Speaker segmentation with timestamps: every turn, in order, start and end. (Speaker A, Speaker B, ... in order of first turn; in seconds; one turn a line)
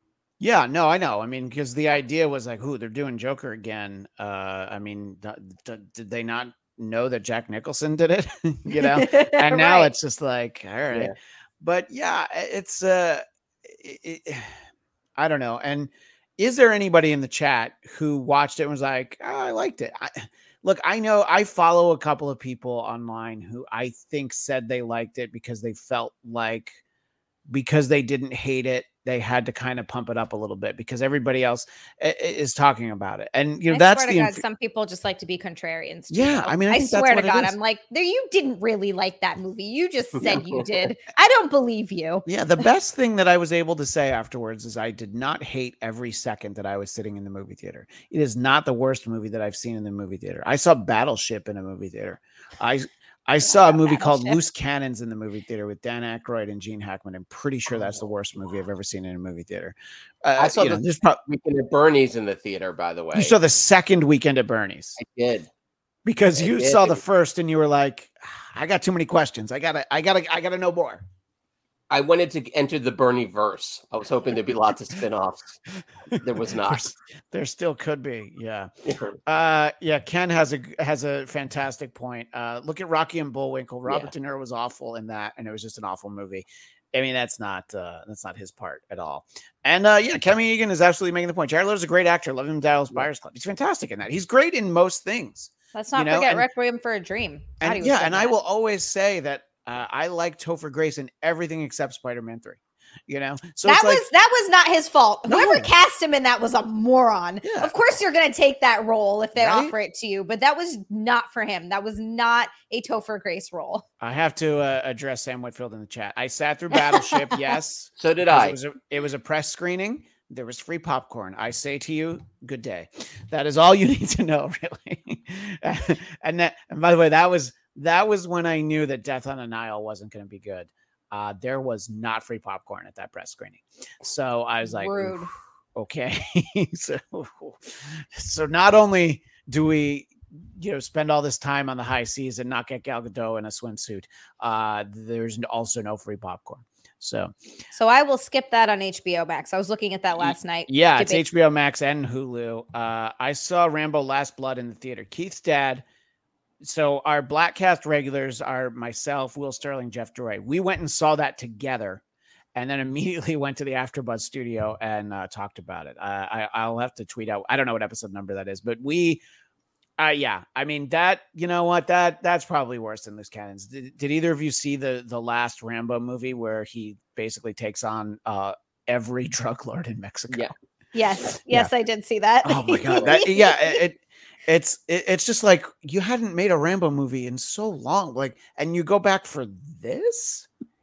Speaker A: 0.4-14.5
Speaker B: 8.8-9.9
Speaker A: 15.2-26.8
Speaker A: 27.5-34.4
Speaker B: 33.7-42.3
Speaker A: 36.1-37.5
Speaker C: 40.2-40.7
Speaker A: 42.3-61.2
Speaker B: 53.9-54.3
Speaker C: 60.4-63.4
Speaker A: 63.1-65.0
Speaker C: 65.0-65.5
Speaker A: 66.0-71.0
Speaker C: 66.4-67.0
Speaker C: 71.9-75.6
Speaker A: 76.1-78.7
Speaker C: 76.2-76.9
Speaker C: 78.8-79.2
Speaker A: 79.3-96.5
Speaker C: 83.9-84.1
Speaker B: 95.8-98.3
Speaker A: 97.6-104.0
Speaker B: 103.7-113.8
Speaker A: 105.3-105.7
Speaker A: 107.4-107.7
Speaker A: 109.4-109.7
Speaker A: 114.0-147.3
Speaker C: 118.0-118.6
Speaker B: 134.6-135.3
Speaker B: 147.7-151.2
Speaker A: 150.2-155.8
Speaker A: 156.6-162.0
Speaker A: 162.6-169.2
Speaker A: 170.0-180.5
Speaker B: 180.9-183.8
Speaker A: 182.4-190.5